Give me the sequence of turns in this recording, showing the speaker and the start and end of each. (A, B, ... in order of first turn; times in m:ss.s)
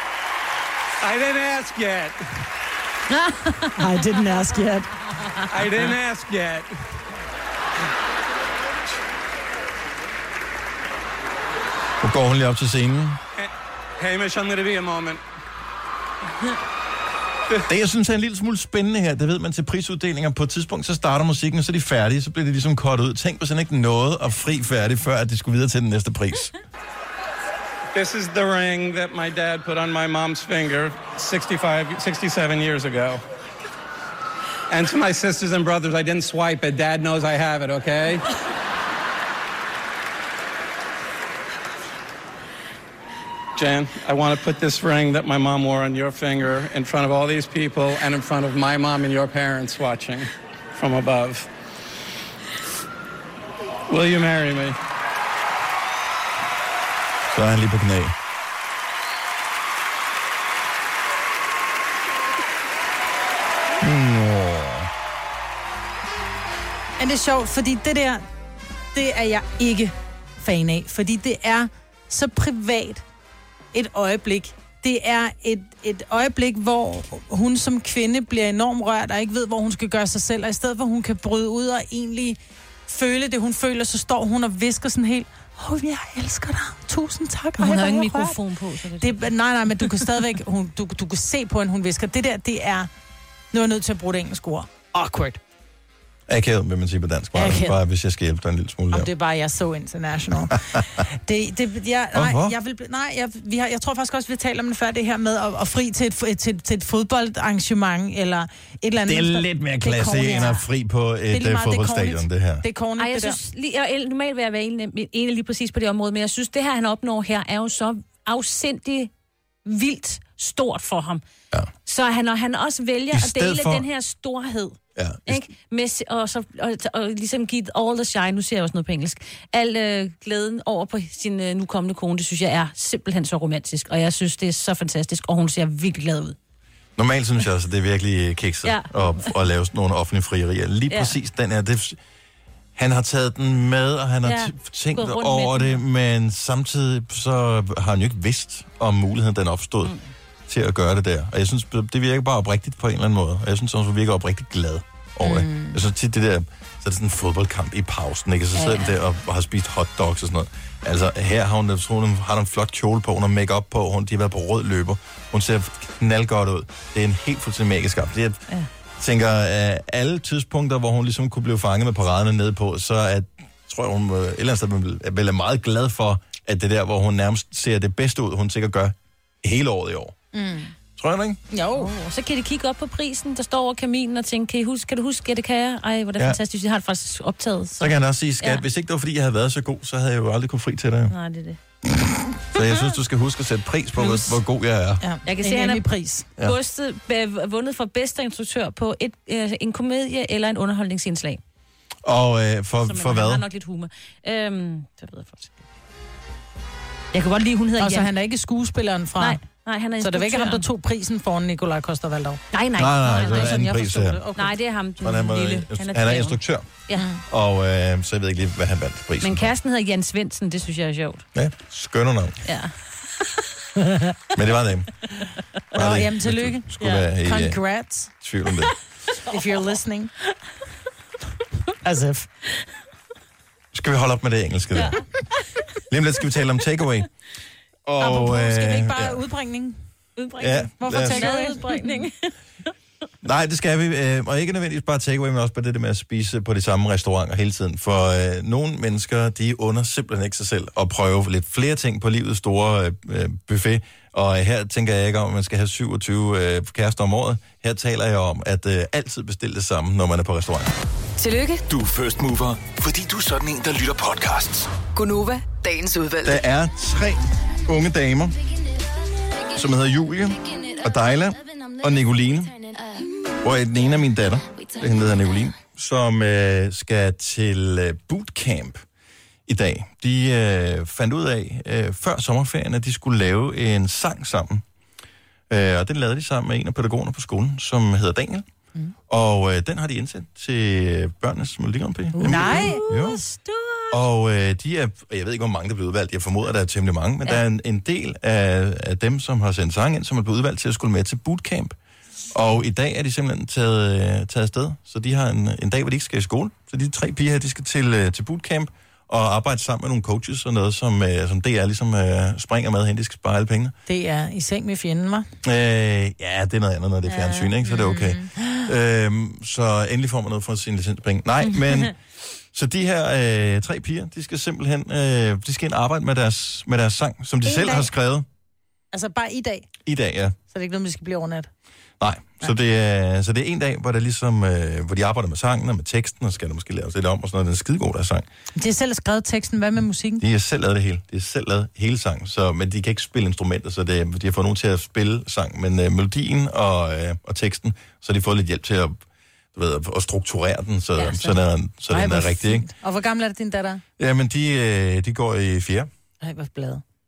0:01.0-0:02.2 A
0:03.1-0:03.7 B
0:03.8-0:04.9 C
0:05.5-0:06.7 A
0:12.0-0:13.2 D
0:13.4-0:15.2 A
0:17.7-0:26.5 D
0:27.9-0:33.2 A
0:34.7-0:38.2 A
0:43.6-0:51.5 A
0:53.9-0:54.8 A
0:57.3-0:58.1 D
1:03.8-1:04.9 D
1:07.0-1:08.2 C
1:08.9-1:13.0 C
1:13.7-1:28.4 C
1:27.6-1:29.2 B
1:29.0-1:32.9 C
1:33.5-1:35.4 C
1:36.3-1:39.1 D
1:37.3-1:37.8 C
1:38.9-1:50.6 C
1:42.1-1:42.5 D
1:49.0-1:52.6 D
1:51.3-1:53.4 C
1:53.0-1:59.1 B
1:59.6-2:01.2 B
2:01.8-2:16.4 B
2:03.1-2:03.9 D
2:05.0-2:05.4 D
2:17.0-2:22.0 D
2:18.6-2:19.2 B
2:20.9-2:21.1 B
2:22.8-2:29.9 D
2:24.2-2:25.8 B
2:30.5-2:48.4 D
2:35.2-2:35.8 C
2:38.5-2:38.9 B
2:49.0-3:00.2 D
3:00.3-3:00.7 C
3:01.0-3:01.4 D
3:01.5-3:01.9 C
3:01.7-3:08.6 B
3:07.8-3:11.1 D
3:11.1-3:11.6 B
3:12.5-3:15.0 D
3:14.0-3:14.4 B
3:15.0-3:16.2 C
3:15.2-3:21.4 B
3:22.0-3:23.4 D
3:22.8-3:25.5 B
3:27.1-3:28.1 B
3:27.8-3:29.4 C
3:29.2-3:30.7 B
3:30.0-3:32.4 C
3:32.5-3:33.7 B
3:32.8-3:34.2 D
3:33.1-3:34.5 C
3:34.3-3:37.1 B
3:35.0-3:39.5 D
3:37.0-3:37.2 C
3:39.2-3:41.2 B
3:41.3-3:42.4 D
3:42.4-3:42.7 B
3:44.3-3:45.0 D
3:45.7-3:47.6 D
3:45.7-3:48.1 C
3:48.2-3:48.7 D
3:49.3-3:50.1 C
3:51.8-3:52.3 C
3:53.7-3:55.0 D
3:54.7-3:55.0 B
3:55.9-3:57.1 D
3:57.8-3:59.2 D
3:58.0-3:59.8 C
4:00.2-4:02.3 B
4:00.4-4:01.4 D
4:00.8-4:02.0 C
4:03.2-4:20.7 D
4:21.2-4:21.6 E
4:21.7-4:24.7 F
4:24.9-4:26.4 E
4:26.2-4:28.4 D
4:29.5-4:32.6 D
4:33.4-4:38.8 D
4:39.5-4:44.6 D
4:45.5-4:48.4 D
4:49.1-4:53.2 D
4:52.2-4:54.0 B
4:52.2-4:52.8 C
4:53.9-5:01.7 D
5:02.3-5:13.8 D
5:13.9-5:15.3 C
5:15.4-5:21.9 D
5:17.8-5:18.3 C
5:22.5-5:28.2 D
5:27.4-5:27.9 C
5:28.9-5:29.7 C
5:29.8-5:30.4 D
5:30.5-5:31.5 C
5:32.0-5:38.2 D
5:38.6-5:40.2 C
5:40.2-5:49.0 D
5:49.5-5:52.7 D
5:51.0-5:51.3 B
5:51.9-5:53.8 C
5:54.0-5:55.9 D
5:56.2-5:56.8 C